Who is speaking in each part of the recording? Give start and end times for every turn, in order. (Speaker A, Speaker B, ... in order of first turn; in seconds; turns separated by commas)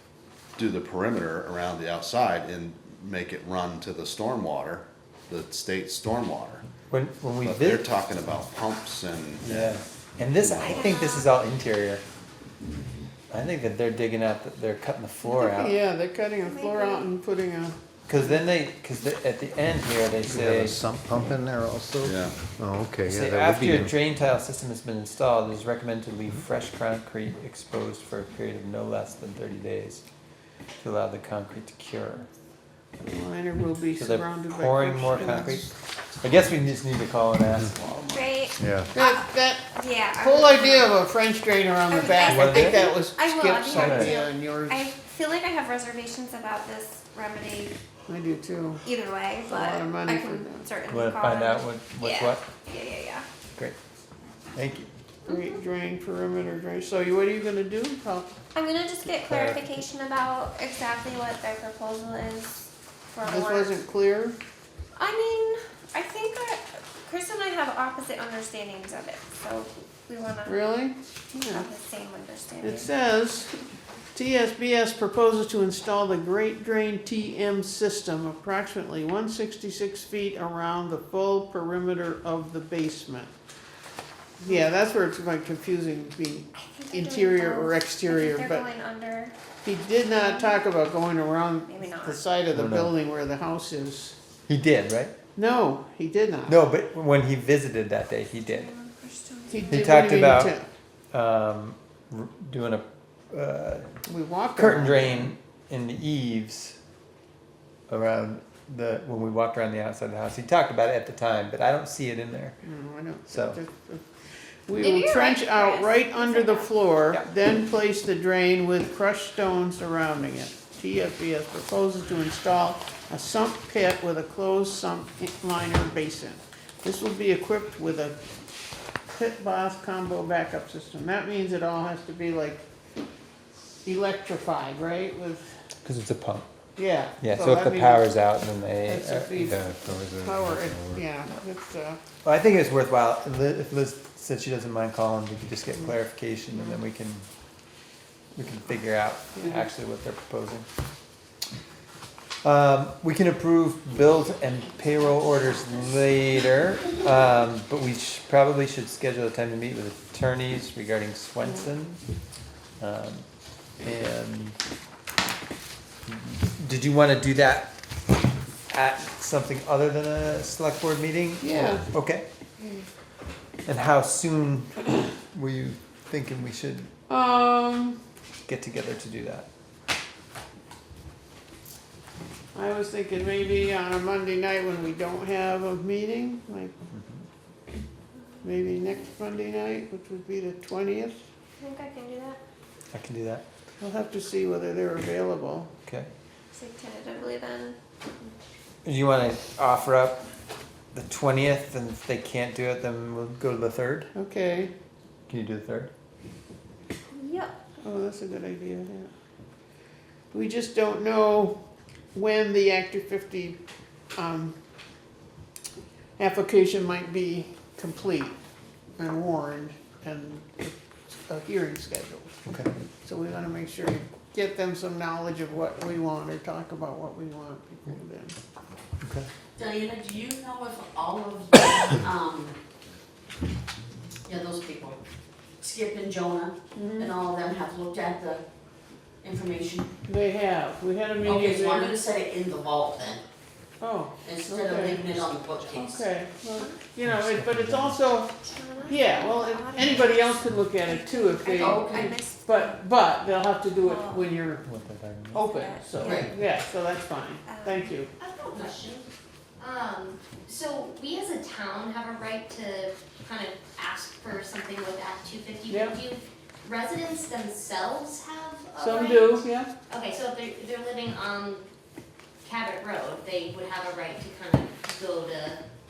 Speaker A: 0.6-6.7, Speaker B: 6.9-7.8, Speaker A: 7.4-9.8, Speaker B: 9.4-12.0, Speaker A: 10.4-10.9, Speaker C: 10.6-11.3, Speaker B: 13.3-15.8, Speaker D: 15.2-17.8, Speaker C: 16.4-17.1, Speaker B: 18.1-20.8, Speaker E: 20.3-24.0, Speaker A: 22.0-22.4, Speaker B: 23.1-30.0, Speaker B: 30.8-32.3, Speaker D: 33.0-35.7, Speaker B: 33.9-38.3, Speaker C: 38.1-40.9, Speaker E: 38.6-38.9, Speaker D: 38.9-44.8, Speaker C: 41.9-47.8, Speaker B: 42.2-42.9, Speaker B: 43.7-44.2, Speaker D: 48.1-48.8, Speaker C: 48.8-53.2, Speaker D: 49.5-50.7, Speaker B: 50.9-52.4, Speaker B: 54.5-54.9, Speaker C: 55.3-55.6, Speaker D: 55.3-58.4, Speaker C: 58.5-63.8, Speaker B: 59.2-59.8, Speaker D: 63.2-64.4, Speaker C: 65.0-70.8, Speaker D: 70.5-71.7, Speaker C: 71.4-72.9, Speaker D: 72.6-73.5, Speaker D: 74.1-83.3, Speaker D: 84.4-88.7, Speaker C: 86.6-89.3, Speaker D: 89.6-94.2, Speaker C: 90.1-90.6, Speaker C: 91.7-92.2, Speaker B: 92.5-92.9, Speaker B: 94.5-95.1, Speaker D: 95.4-96.6, Speaker B: 96.5-98.7, Speaker C: 98.4-100.0, Speaker D: 99.5-100.7, Speaker B: 99.7-100.6, Speaker B: 101.1-103.9, Speaker D: 104.1-105.3, Speaker B: 104.5-106.8, Speaker B: 107.9-112.6, Speaker D: 112.6-114.0, Speaker B: 113.3-113.6, Speaker D: 114.7-128.2, Speaker C: 114.8-116.7, Speaker D: 129.1-132.6, Speaker D: 133.8-135.5, Speaker B: 135.8-136.5, Speaker D: 136.8-138.1, Speaker B: 137.2-139.5, Speaker D: 138.8-142.0, Speaker E: 139.4-141.1, Speaker B: 142.2-147.3, Speaker B: 148.3-150.7, Speaker B: 152.4-162.0, Speaker B: 162.8-163.3, Speaker B: 163.8-164.6, Speaker B: 166.1-167.7, Speaker B: 168.7-172.2, Speaker D: 171.4-171.9, Speaker B: 173.7-176.9, Speaker D: 177.1-178.0, Speaker B: 178.5-179.5, Speaker D: 182.5-186.7, Speaker B: 186.9-187.2, Speaker D: 188.4-191.2, Speaker C: 191.6-192.4, Speaker B: 192.9-193.4, Speaker D: 193.8-195.7, Speaker C: 196.5-198.3, Speaker B: 198.8-200.2, Speaker B: 200.9-204.1, Speaker D: 204.2-204.7, Speaker B: 205.3-205.9, Speaker C: 207.1-207.6, Speaker D: 207.8-209.1, Speaker D: 210.3-211.6, Speaker D: 212.1-213.6, Speaker D: 214.2-214.6, Speaker D: 216.2-218.4, Speaker D: 219.0-222.3, Speaker B: 222.5-222.7, Speaker D: 223.0-228.4, Speaker B: 229.0-229.3, Speaker F: 229.6-232.6, Speaker F: 234.3-235.0, Speaker F: 235.6-238.4, Speaker D: 236.8-237.1, Speaker F: 239.2-239.9, Speaker D: 240.1-242.0, Speaker F: 241.2-243.2, Speaker D: 243.8-245.2, Speaker F: 244.2-246.1, Speaker D: 245.7-254.6, Speaker C: 246.6-246.8, Speaker B: 247.0-248.1, Speaker C: 248.4-252.8, Speaker F: 251.5-252.2, Speaker C: 253.8-254.3, Speaker B: 254.6-255.5, Speaker D: 255.3-258.1, Speaker C: 255.5-256.3, Speaker F: 256.0-256.3, Speaker C: 257.4-257.9, Speaker G: 258.2-258.9, Speaker F: 258.4-259.1, Speaker G: 259.6-271.6, Speaker D: 265.7-266.0, Speaker D: 268.8-269.7, Speaker G: 272.4-275.6